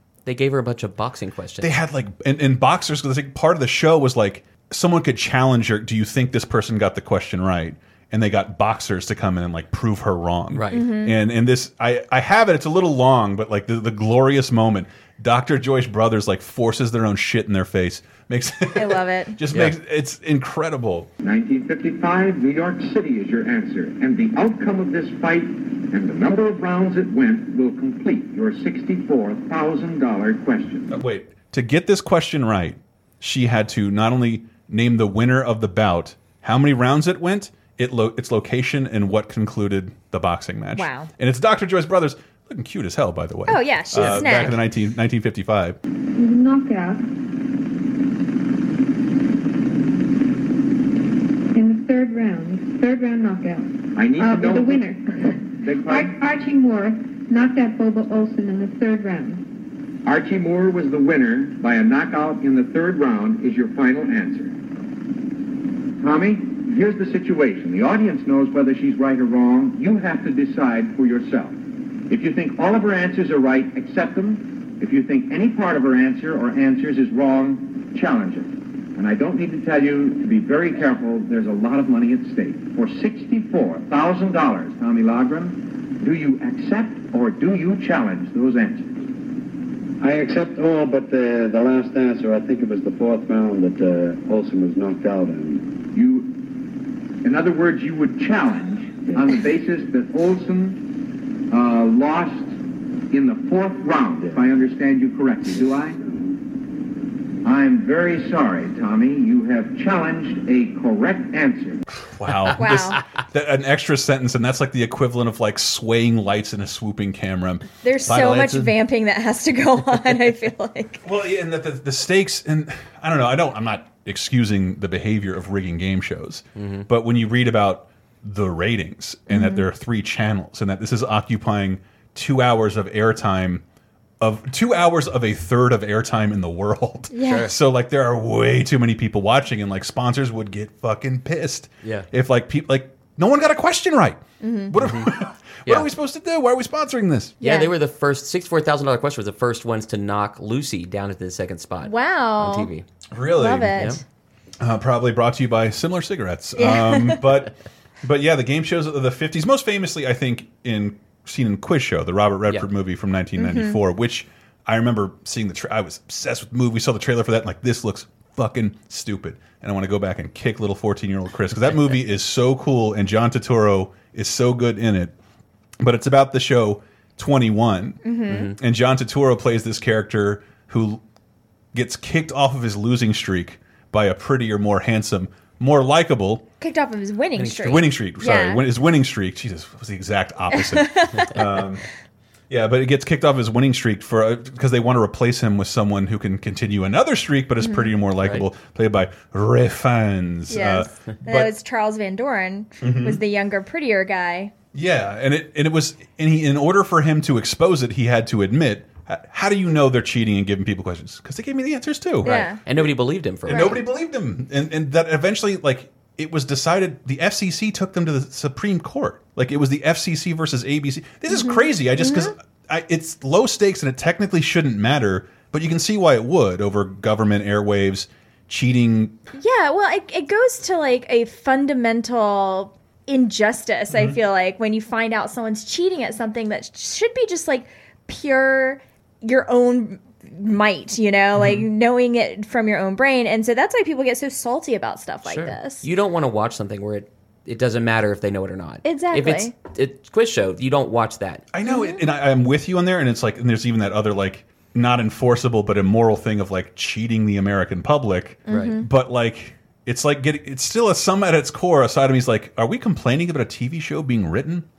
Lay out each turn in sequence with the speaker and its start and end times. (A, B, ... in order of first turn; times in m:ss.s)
0:00.3-0:01.8 A
0:01.6-0:21.1 B
0:10.5-0:10.9 A
0:10.7-0:11.2 C
0:18.8-0:19.4 C
0:21.2-0:31.0 D
0:30.9-0:45.8 B
0:40.8-0:41.1 C
0:43.5-0:44.6 C
0:46.2-0:47.0 E
0:51.5-0:59.4 E
0:54.0-0:54.9 D
0:55.6-0:56.2 D
1:00.0-1:04.6 D
1:06.0-1:11.6 D
1:12.1-1:29.0 D
1:30.0-1:35.7 F
1:35.9-1:36.6 D
1:37.2-1:42.6 D
1:43.1-1:46.0 D
1:47.4-1:51.8 D
1:52.0-1:58.7 B
1:52.6-1:53.0 C
1:57.8-2:01.0 C
2:01.0-2:13.6 B
2:06.6-2:06.9 A
2:09.3-2:09.7 C
2:14.2-2:27.4 B
2:17.1-2:17.5 C
2:17.3-2:17.5 A
2:24.4-2:24.7 C
2:24.8-2:25.1 A
2:27.4-2:27.7 C
2:27.4-2:32.8 A
2:31.8-2:32.7 C
2:33.1-2:33.8 B
2:33.3-2:34.0 C
2:34.6-2:55.1 B
2:36.6-2:37.3 C
2:43.4-2:43.8 C
2:55.8-3:01.0 B
2:58.0-2:58.5 C
2:58.3-2:58.5 A
3:01.7-3:06.4 B
3:06.6-3:08.6 C
3:07.4-3:11.8 B
3:10.5-3:11.6 C
3:12.5-3:21.5 B
3:17.6-3:17.9 C
3:20.5-3:24.5 C
3:22.8-3:23.2 B
3:24.7-3:32.8 B
3:32.2-3:32.6 C
3:32.7-3:33.8 A
3:33.4-3:49.2 B
3:33.5-3:33.8 C
3:41.3-3:42.3 C
3:49.4-4:05.9 C
3:53.9-3:54.2 B
4:01.4-4:01.6 B
4:05.2-4:11.5 A
4:08.8-4:09.5 C
4:11.5-4:24.7 B
4:11.7-4:12.0 C
4:18.5-4:18.9 C
4:18.5-4:18.8 A